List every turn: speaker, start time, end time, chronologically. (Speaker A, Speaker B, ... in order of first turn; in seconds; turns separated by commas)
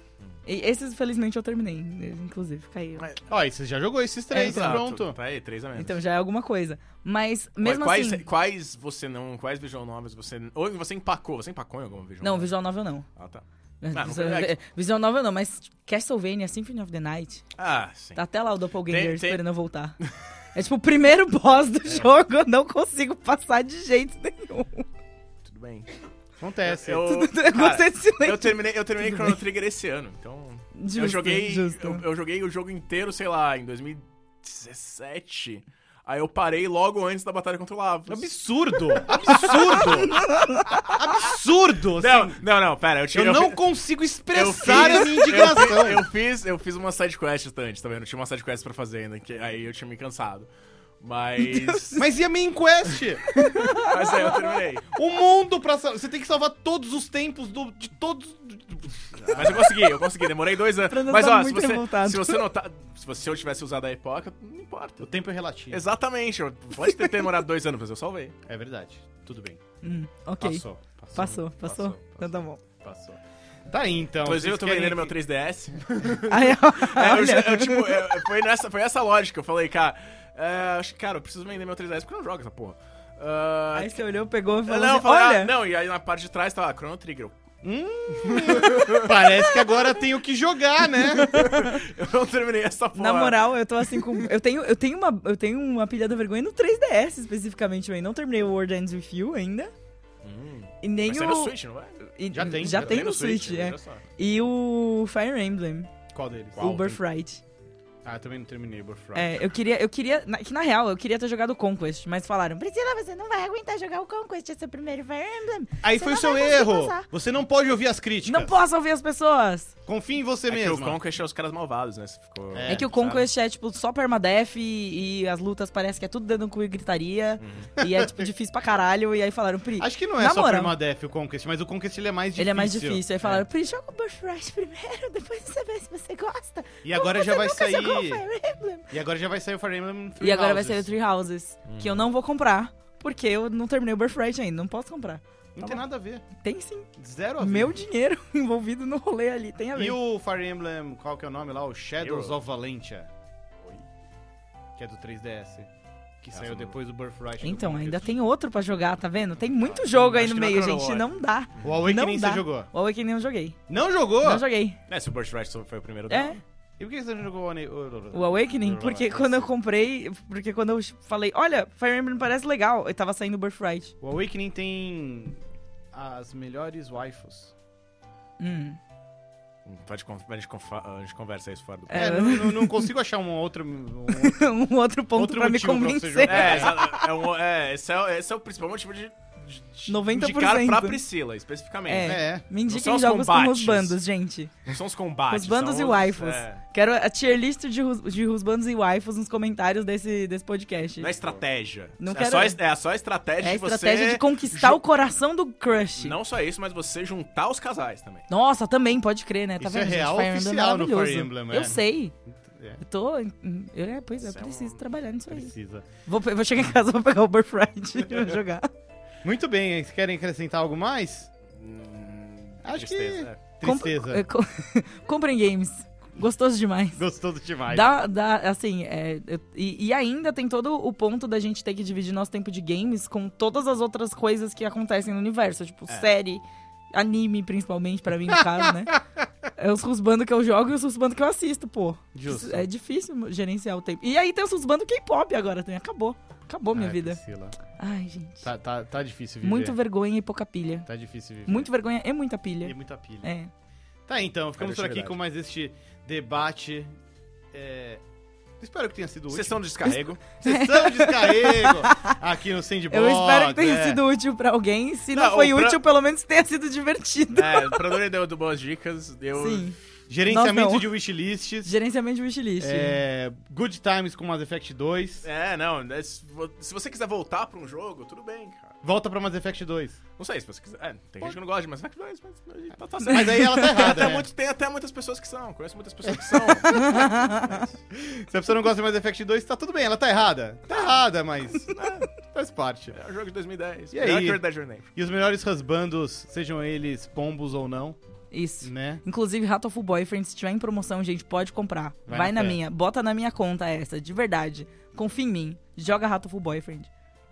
Speaker A: 0.4-3.1, Speaker B: 3.0-3.2, Speaker C: 3.3-5.2, Speaker A: 4.3-4.8, Speaker B: 4.3-6.0, Speaker A: 5.8-8.2, Speaker B: 7.6-12.5, Speaker A: 12.2-13.1, Speaker B: 13.2-14.5, Speaker A: 13.8-17.4, Speaker B: 17.6-18.2, Speaker A: 18.1-20.0, Speaker B: 18.9-19.4, Speaker A: 20.5-24.9, Speaker B: 25.4-25.9, Speaker C: 26.4-27.1, Speaker B: 26.6-38.3, Speaker A: 27.1-29.4, Speaker A: 30.8-32.0, Speaker C: 38.1-42.4, Speaker B: 39.1-40.0, Speaker A: 40.1-40.8, Speaker B: 42.0-43.7, Speaker C: 43.1-46.1, Speaker B: 44.3-50.5, Speaker B: 51.0-52.1, Speaker A: 51.5-51.9, Speaker C: 52.0-53.3, Speaker A: 53.3-54.5, Speaker B: 53.4-54.9, Speaker C: 54.9-59.9, Speaker B: 59.2-68.3, Speaker A: 60.9-62.4, Speaker C: 65.0-65.8, Speaker A: 66.8-67.2, Speaker C: 68.5-69.6, Speaker A: 69.8-70.6, Speaker C: 70.4-71.4, Speaker A: 71.1-72.6, Speaker B: 71.3-73.2, Speaker C: 73.7-75.1, Speaker B: 74.2-84.0, Speaker A: 76.3-78.2, Speaker A: 83.7-85.5, Speaker B: 84.6-87.3, Speaker C: 87.6-91.6, Speaker B: 88.2-89.5, Speaker A: 91.2-91.8, Speaker B: 91.2-94.2, Speaker A: 92.9-99.7, Speaker B: 100.2-104.0, Speaker A: 100.8-105.9, Speaker C: 102.3-103.0, Speaker C: 106.1-106.7, Speaker B: 106.5-107.0, Speaker A: 106.6-107.4, Speaker C: 108.0-109.4, Speaker A: 109.1-117.1, Speaker C: 115.8-118.5, Speaker A: 118.2-119.7, Speaker C: 119.8-121.0, Speaker B: 120.5-122.8, Speaker C: 122.5-123.3, Speaker A: 122.6-130.7, Speaker B: 127.4-127.7, Speaker C: 127.8-128.1, Speaker C: 129.8-133.4, Speaker A: 132.4-138.9, Speaker C: 136.8-138.2, Speaker C: 138.9-140.9, Speaker A: 140.2-145.2, Speaker B: 141.7-142.1, Speaker C: 145.6-146.2, Speaker A: 146.4-150.0, Speaker C: 146.9-147.8, Speaker C: 149.7-153.1, Speaker B: 152.0-152.3, Speaker B: 153.6-153.8, Speaker C: 154.8-155.7, Speaker C: 156.2-158.1, Speaker B: 156.3-156.7, Speaker A: 157.4-163.6, Speaker B: 159.6-161.7, Speaker C: 161.6-162.7, Speaker C: 163.7-164.4, Speaker A: 164.2-164.8, Speaker B: 164.9-166.4, Speaker A: 166.1-166.4, Speaker C: 166.8-169.5, Speaker A: 168.1-173.9, Speaker C: 174.0-175.4, Speaker C: 175.9-177.5, Speaker A: 178.4-178.8, Speaker B: 179.7-182.4, Speaker A: 181.9-182.8, Speaker C: 181.9-184.4, Speaker A: 184.1-187.1, Speaker C: 185.2-186.8, Speaker B: 186.2-194.0, Speaker A: 189.9-191.0, Speaker A: 191.9-194.5, Speaker C: 192.0-192.4, Speaker B: 194.7-196.6, Speaker A: 195.3-201.1, Speaker B: 201.0-204.8, Speaker A: 202.0-202.6, Speaker A: 203.4-206.2, Speaker B: 206.0-208.3, Speaker A: 208.3-212.1, Speaker C: 209.6-211.8, Speaker C: 212.3-212.8, Speaker A: 212.8-215.5, Speaker B: 214.2-214.8, Speaker C: 215.3-215.8, Speaker A: 216.1-218.7, Speaker C: 219.2-221.3, Speaker B: 221.5-223.4, Speaker C: 222.6-224.2, Speaker A: 223.6-227.0, Speaker C: 226.9-227.9, Speaker A: 227.7-238.9, Speaker A: 239.6-247.2, Speaker C: 242.1-242.6, Speaker C: 246.7-247.6, Speaker A: 247.7-248.5, Speaker C: 248.4-249.7, Speaker A: 249.4-250.9, Speaker C: 250.8-251.7, Speaker A: 251.4-253.5, Speaker C: 252.6-253.3, Speaker C: 254.1-256.9, Speaker B: 254.6-255.2, Speaker C: 257.5-258.0, Speaker C: 258.6-259.6, Speaker B: 259.3-260.2, Speaker A: 260.4-262.1, Speaker C: 260.4-264.0, Speaker A: 262.9-267.8, Speaker B: 265.1-265.8, Speaker B: 267.3-269.8, Speaker A: 269.4-269.7, Speaker C: 270.1-271.7, Speaker A: 270.3-270.9, Speaker A: 271.6-273.0, Speaker C: 272.6-275.3, Speaker B: 275.2-278.8, Speaker C: 278.8-280.0, Speaker B: 280.2-287.8, Speaker C: 283.1-284.3, Speaker C: 286.1-287.3, Speaker A: 286.7-287.4, Speaker C: 287.9-292.9, Speaker B: 290.7-290.9, Speaker B: 291.7-292.1, Speaker B: 292.9-294.9, Speaker C: 293.9-298.0, Speaker A: 298.3-306.9, Speaker C: 298.6-299.0, Speaker C: 302.1-302.6